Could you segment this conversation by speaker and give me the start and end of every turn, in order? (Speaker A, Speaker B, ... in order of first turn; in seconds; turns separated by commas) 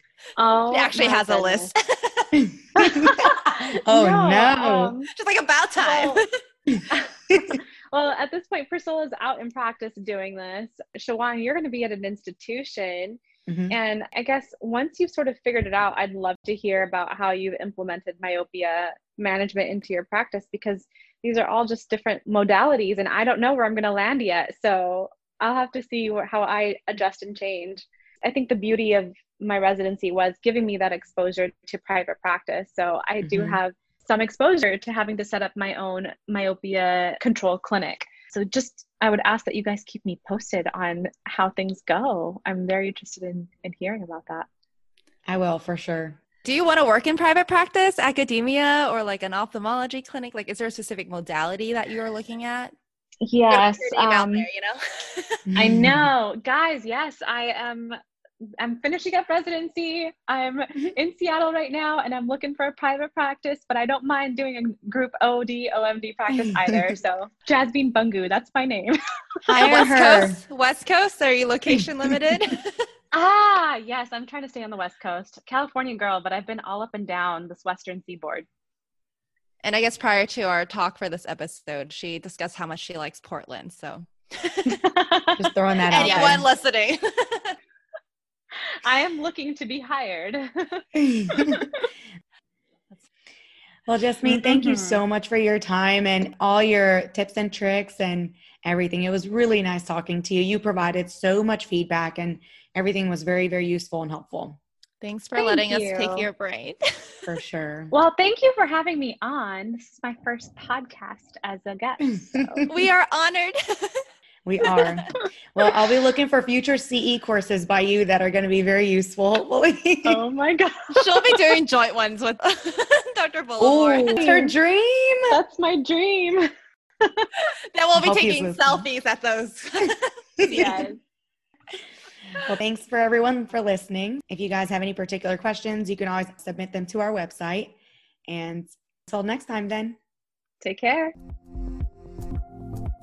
Speaker A: 0.4-1.7, Speaker B: 0.7-2.4, Speaker C: 2.3-4.9, Speaker A: 2.8-5.1, Speaker B: 5.1-6.2, Speaker A: 5.8-6.2, Speaker C: 6.7-7.6, Speaker A: 6.9-44.5, Speaker C: 13.5-13.7, Speaker C: 33.2-33.6, Speaker C: 45.2-46.2, Speaker B: 46.4-52.7, Speaker A: 53.2-54.5, Speaker B: 53.5-55.5, Speaker C: 55.5-56.1, Speaker A: 55.5-58.0, Speaker A: 58.6-69.0, Speaker C: 66.3-67.0, Speaker C: 69.5-70.4, Speaker A: 69.5-70.0, Speaker B: 69.6-72.8, Speaker C: 71.7-72.2, Speaker A: 73.1-78.5, Speaker B: 79.6-84.8, Speaker A: 84.8-86.4, Speaker C: 85.4-86.5, Speaker B: 85.9-87.6, Speaker A: 88.6-91.9, Speaker C: 91.0-91.7, Speaker C: 93.9-104.6, Speaker A: 94.2-95.0, Speaker B: 105.0-107.3, Speaker A: 105.3-106.3, Speaker C: 107.2-107.9, Speaker A: 107.9-112.7, Speaker C: 112.0-112.7, Speaker B: 112.7-114.0, Speaker C: 114.4-120.2, Speaker A: 120.0-121.4, Speaker B: 120.9-124.2, Speaker C: 123.6-125.3, Speaker A: 124.1-124.5, Speaker A: 125.3-126.5, Speaker A: 127.0-127.3, Speaker B: 127.7-130.8, Speaker C: 128.0-128.8, Speaker C: 130.4-130.8, Speaker A: 130.4-131.0, Speaker C: 132.4-137.7, Speaker C: 138.3-140.0, Speaker A: 140.6-141.1